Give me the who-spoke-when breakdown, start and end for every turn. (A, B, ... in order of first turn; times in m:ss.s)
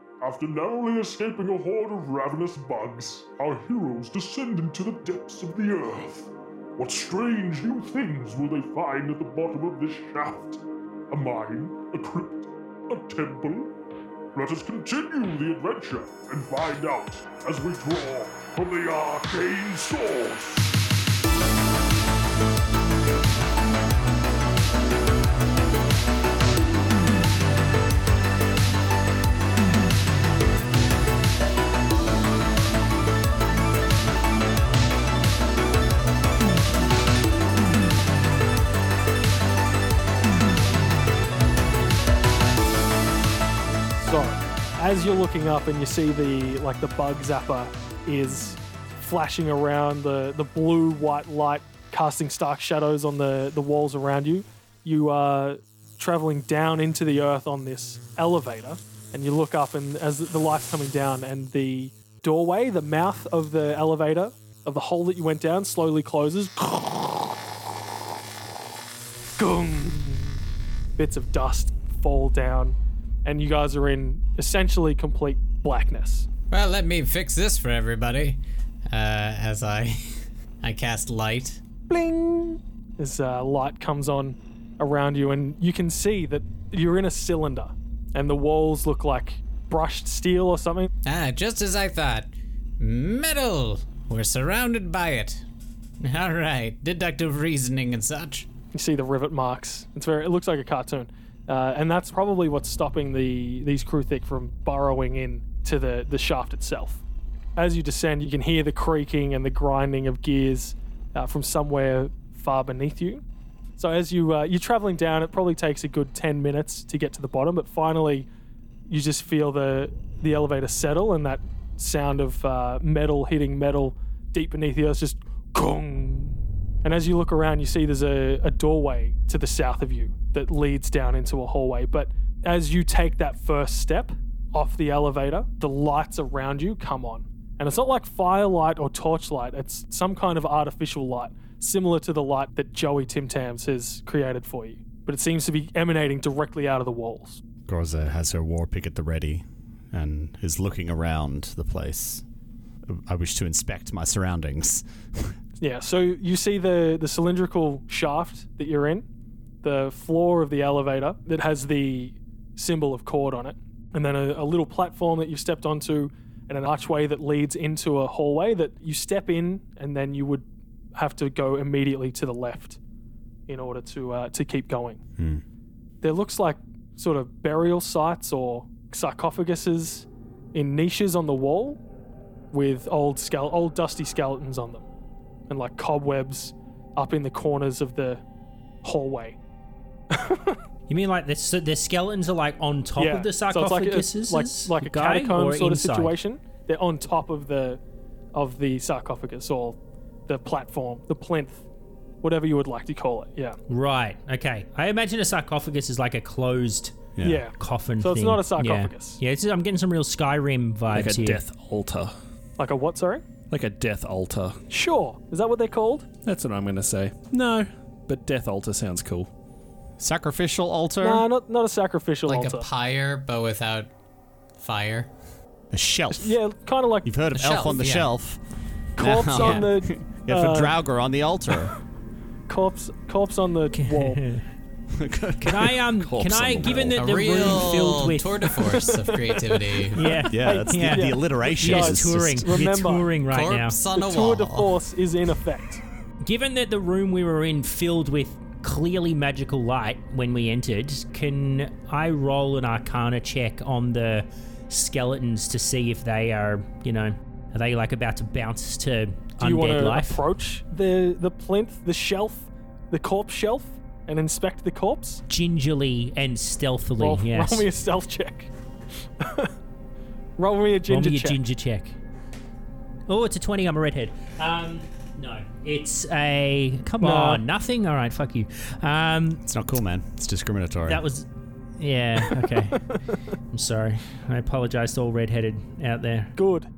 0:00.2-0:13.8 A
0:14.4-0:20.8 A
0:44.0-1:07.4 B
1:09.4-1:10.4 B
1:11.0-1:16.3 B
1:16.5-1:21.6 C
1:21.9-1:30.9 B
1:31.0-1:35.4 C
1:36.0-1:38.5 C
1:38.7-1:47.0 B
1:47.6-1:53.2 B
1:53.8-1:58.3 B
1:58.9-2:27.4 B
2:27.7-2:32.2 D
2:32.9-2:35.4 D
2:35.6-2:39.0 B
2:39.6-2:52.8 B
2:53.5-2:55.0 B
2:55.2-2:55.4 D
2:56.0-3:01.8 B
3:02.5-3:04.9 B
3:05.5-3:08.2 B
3:08.8-3:09.4 B
3:10.1-3:10.6 B
3:10.9-3:16.2 E
3:13.0-3:17.8 B
3:18.3-3:21.6 B
3:22.2-3:23.6 B
3:23.7-3:27.0 E
3:27.2-3:27.4 D
3:27.2-3:29.2 B
3:27.6-3:31.4 E
3:30.9-3:32.1 F
3:32.6-3:33.2 B
3:33.5-3:34.6 F
3:34.7-3:36.1 B
3:36.2-3:39.3 F
3:40.0-3:41.3 D
3:41.0-3:42.7 B
3:42.3-3:43.9 C
3:44.6-3:45.1 C
3:45.7-3:46.4 D
3:46.2-3:47.2 B
3:47.0-3:48.4 D
3:47.4-3:48.1 C
3:49.0-3:50.7 B
3:49.0-3:51.7 D
3:49.3-3:49.7 C
3:52.5-3:54.2 B
3:53.7-3:54.4 E
3:54.9-3:57.4 D
3:55.4-3:58.9 E
3:57.0-4:00.0 C
3:58.7-4:03.1 B
3:59.9-4:03.8 E
4:00.3-4:02.4 D
4:03.3-4:04.7 C
4:03.9-4:05.8 B
4:06.2-4:20.2 E
4:19.4-4:25.2 B
4:25.3-4:27.7 E
4:27.0-4:28.5 B
4:29.2-4:29.5 B
4:30.4-4:31.4 B
4:30.9-4:32.0 E
4:33.1-4:39.4 E
4:37.0-4:37.4 B
4:39.4-4:41.0 D
4:40.9-4:41.3 E
4:41.8-4:42.9 E
4:43.5-4:46.3 E
4:46.4-4:46.7 B